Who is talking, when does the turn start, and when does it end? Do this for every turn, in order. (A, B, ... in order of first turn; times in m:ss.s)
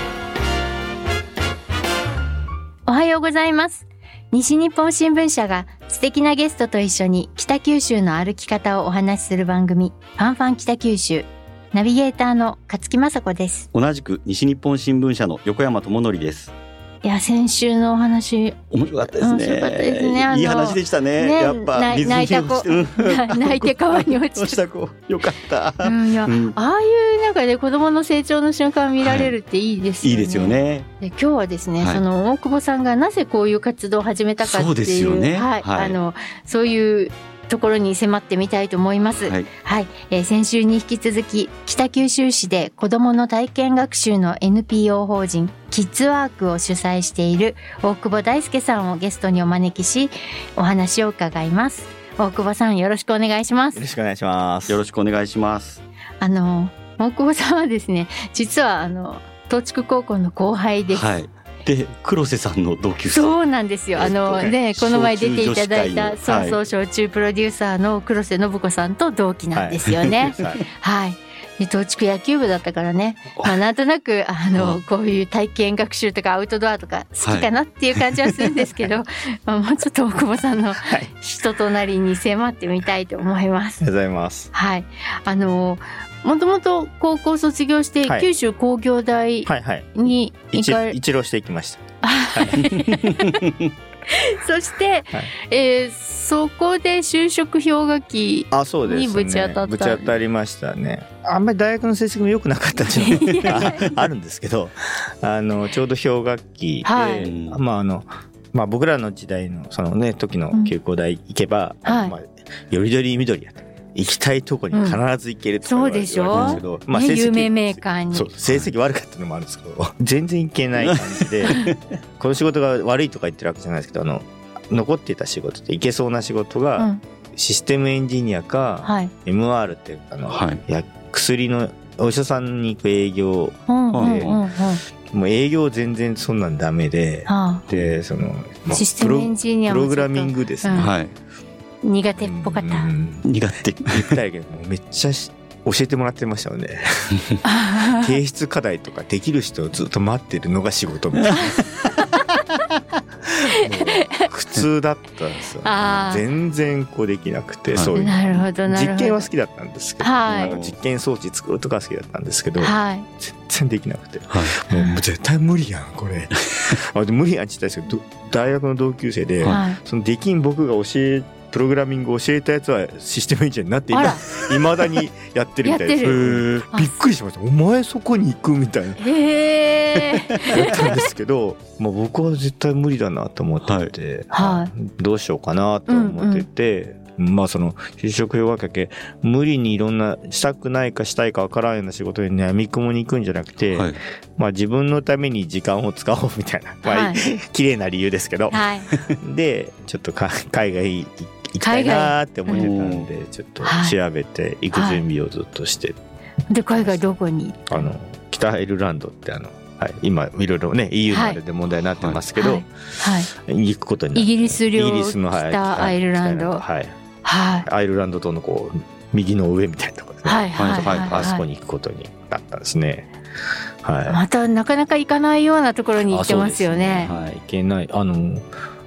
0:02.9-0:13.7 A
0:13.7-0:16.5 B
0:17.0-0:24.6 A
0:18.7-0:26.6 B
0:25.8-0:53.8 A
0:29.0-0:29.3 B
0:30.0-0:30.9 B
0:34.4-0:36.0 B
0:53.7-0:54.8 C
0:54.7-0:55.8 B
0:56.2-1:01.0 A
1:00.9-1:03.3 B
1:03.1-1:23.8 A
1:04.0-1:04.6 C
1:04.0-1:06.6 B
1:09.5-1:10.6 C
1:14.6-1:14.8 B
1:17.2-1:18.4 B
1:20.8-1:21.1 C
1:23.8-1:24.5 C
1:24.5-1:31.0 A
1:29.4-1:30.0 C
1:30.5-1:32.7 C
1:32.0-1:33.5 A
1:34.1-1:40.0 A
1:38.5-2:14.4 C
1:43.0-1:43.9 A
1:43.4-1:43.9 B
1:46.8-1:47.3 A
1:47.2-1:47.6 B
1:51.8-1:52.1 A
1:54.7-1:55.0 A
1:55.6-1:58.3 A
1:56.3-1:56.6 B
2:08.8-2:09.1 A
2:10.3-2:10.6 B
2:13.7-2:14.8 A
2:13.9-2:14.4 B
2:15.1-2:20.9 C
2:17.3-2:17.6 A
2:18.7-2:20.9 A
2:20.8-2:21.1 B
2:21.8-2:22.9 A
2:22.2-2:23.2 C
2:23.2-2:24.2 B
2:23.9-2:31.9 C
2:27.4-2:28.1 A
2:33.2-2:59.1 C
2:33.5-2:34.3 A
2:35.6-2:36.2 A
2:37.9-2:39.2 A
2:40.0-2:40.6 A
2:40.3-2:40.8 B
2:42.6-2:43.1 A
2:44.3-2:44.6 B
2:44.7-2:45.0 A
2:49.5-2:49.8 A
2:53.9-2:54.2 A
2:55.6-2:57.0 A
2:56.0-2:56.7 B
2:59.0-3:00.8 A
3:00.4-3:26.0 C
3:03.6-3:03.9 B
3:04.3-3:04.7 A
3:05.9-3:06.4 A
3:16.8-3:17.2 A
3:18.5-3:18.9 A
3:21.6-3:22.6 A
3:22.5-3:23.1 B
3:23.6-3:24.0 A
3:24.7-3:25.0 A
3:26.5-3:27.9 A
3:27.7-3:37.0 C
3:31.1-3:31.4 A
3:32.0-3:32.2 B
3:32.4-3:33.3 A
3:34.2-3:36.6 A
3:37.2-3:37.7 A
3:37.6-3:43.1 C
3:40.2-3:41.4 A
3:40.6-3:41.3 B
3:43.8-3:44.2 C
3:44.1-3:47.1 A
3:46.1-3:48.5 C